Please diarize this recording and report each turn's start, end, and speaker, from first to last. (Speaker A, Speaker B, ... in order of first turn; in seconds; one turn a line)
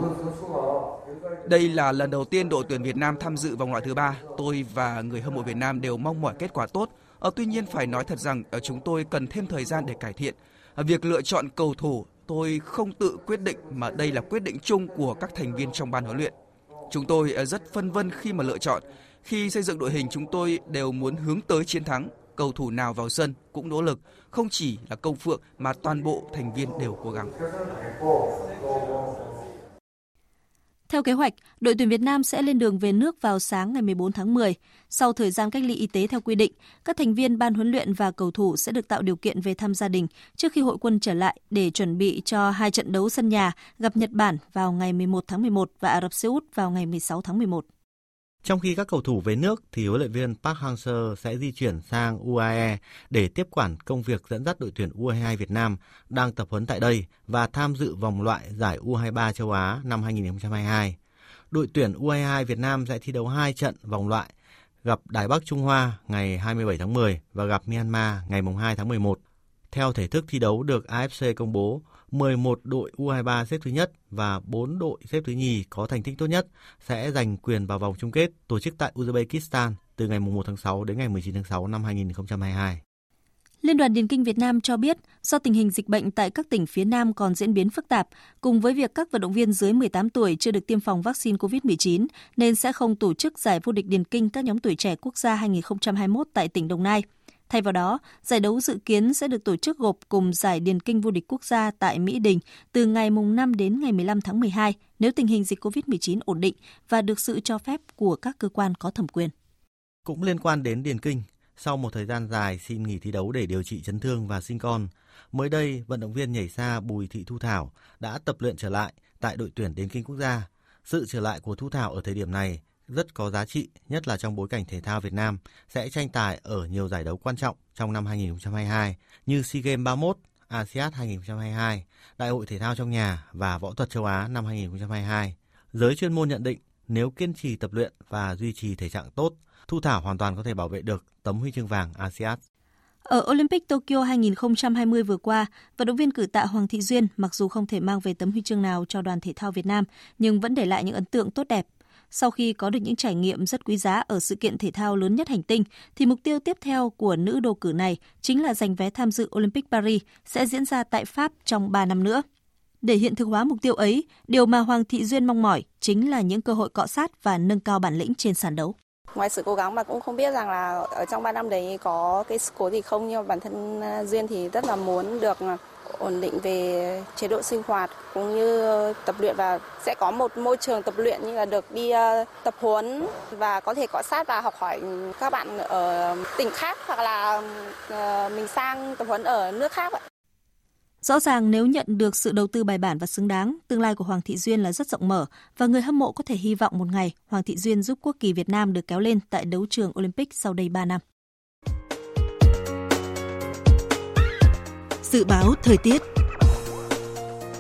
Speaker A: 1.5-16.3
Speaker A: 16.9-27.3
Speaker B: 30.9-47.6
Speaker C: 48.4-61.0
Speaker C: 61.5-64.3
Speaker C: 64.8-69.2
Speaker C: 69.7-82.8
Speaker B: 83.6-109.3
Speaker C: 110.1-142.4
Speaker B: 143.1-162.2
Speaker B: 162.8-168.8
Speaker D: 169.3-175.4
Speaker D: 176.0-182.9
Speaker D: 183.4-187.4
Speaker D: 188.1-189.9
Speaker B: 191.0-201.0
Speaker B: 205.1-206.0